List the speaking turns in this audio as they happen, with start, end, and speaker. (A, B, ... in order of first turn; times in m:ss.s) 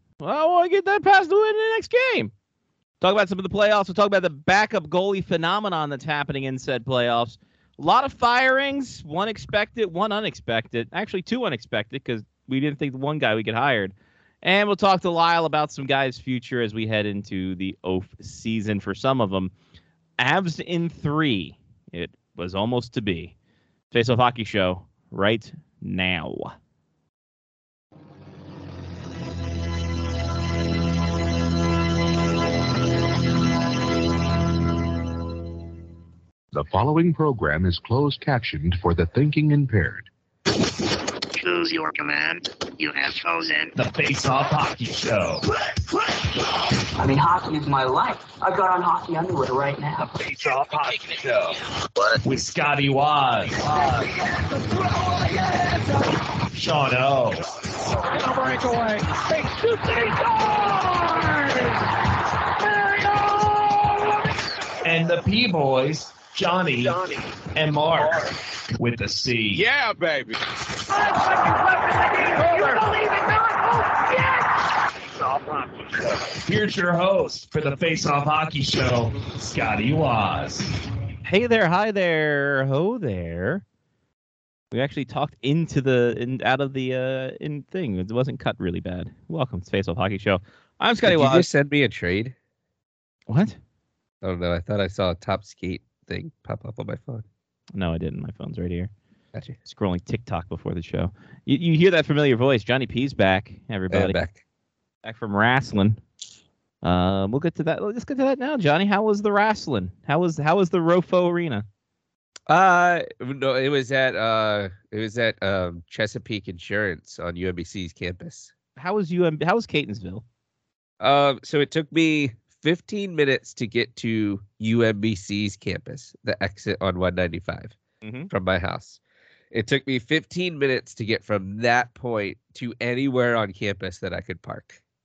0:00.2-0:02.3 A
0:03.0-0:19.5 A
0:20.2-0:23.3 A
0:23.9-0:26.5 A
0:36.5-0:40.1 B
0:41.3-0:43.7 C
0:43.8-0:45.4 D
0:47.0-0:50.2 E
0:50.2-0:51.5 D
0:52.2-0:54.0 D
0:55.1-0:57.4 D
0:58.0-0:59.3 D
0:59.8-1:00.9 D
1:04.8-1:09.6 D
1:11.0-1:11.5 D
1:12.2-1:12.9 D
1:16.3-1:20.7 D
1:21.2-1:23.6 A
1:24.7-1:31.4 A
1:31.0-1:32.3 F
1:33.3-1:33.6 A
1:34.2-1:37.2 F
1:37.8-1:38.9 A
1:39.6-1:44.2 A
1:43.9-1:44.4 F
1:45.0-1:46.0 A
1:46.8-1:51.6 A
1:52.5-1:58.5 F
1:58.8-2:00.2 A
2:01.0-2:07.8 F
2:08.0-2:08.3 A
2:08.3-2:09.0 F
2:09.5-2:14.8 F